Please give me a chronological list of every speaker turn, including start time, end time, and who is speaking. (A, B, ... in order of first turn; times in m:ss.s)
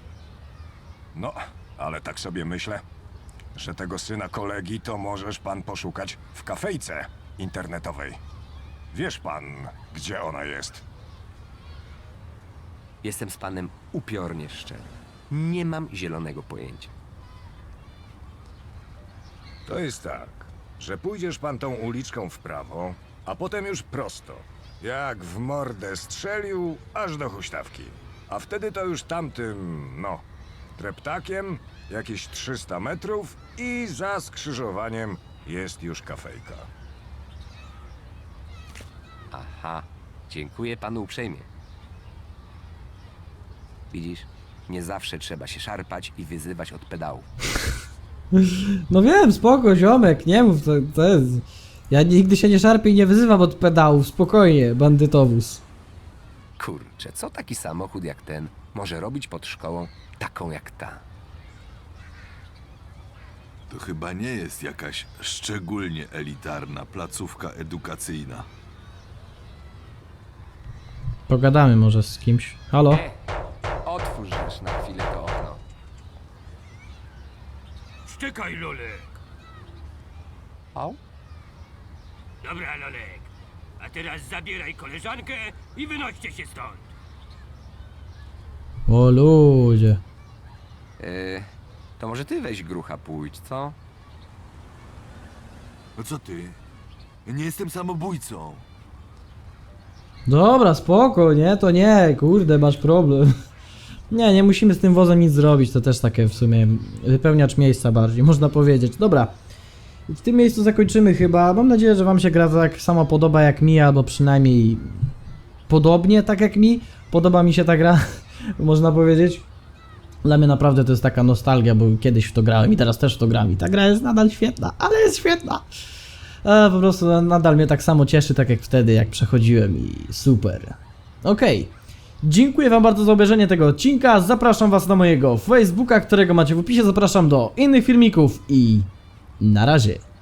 0:01.1-0:02.8 A
0:03.6-0:08.2 A
0:08.9-0:10.8 A
0:13.0-0:16.9 B
0:19.6-0:30.2 A
0:30.8-0:36.7 A
0:39.3-0:41.5 B
0:43.9-0:47.3 B
0:48.3-0:55.6 C
0:56.6-1:01.0 B
1:03.7-1:08.5 D
1:11.3-1:13.0 C
1:12.8-1:13.1 B
1:13.8-1:15.6 B
1:18.1-1:19.1 E
1:20.7-1:21.0 B
1:22.4-1:26.9 E
1:28.9-1:30.0 C
1:31.0-1:31.5 B
1:32.0-1:33.8 B
1:36.0-1:36.6 D
1:37.2-1:38.6 D
1:40.2-1:43.3 C
1:44.1-1:49.3 C
1:50.1-1:55.1 C
1:55.7-1:59.5 C
2:00.2-2:05.6 C
2:06.4-2:20.0 C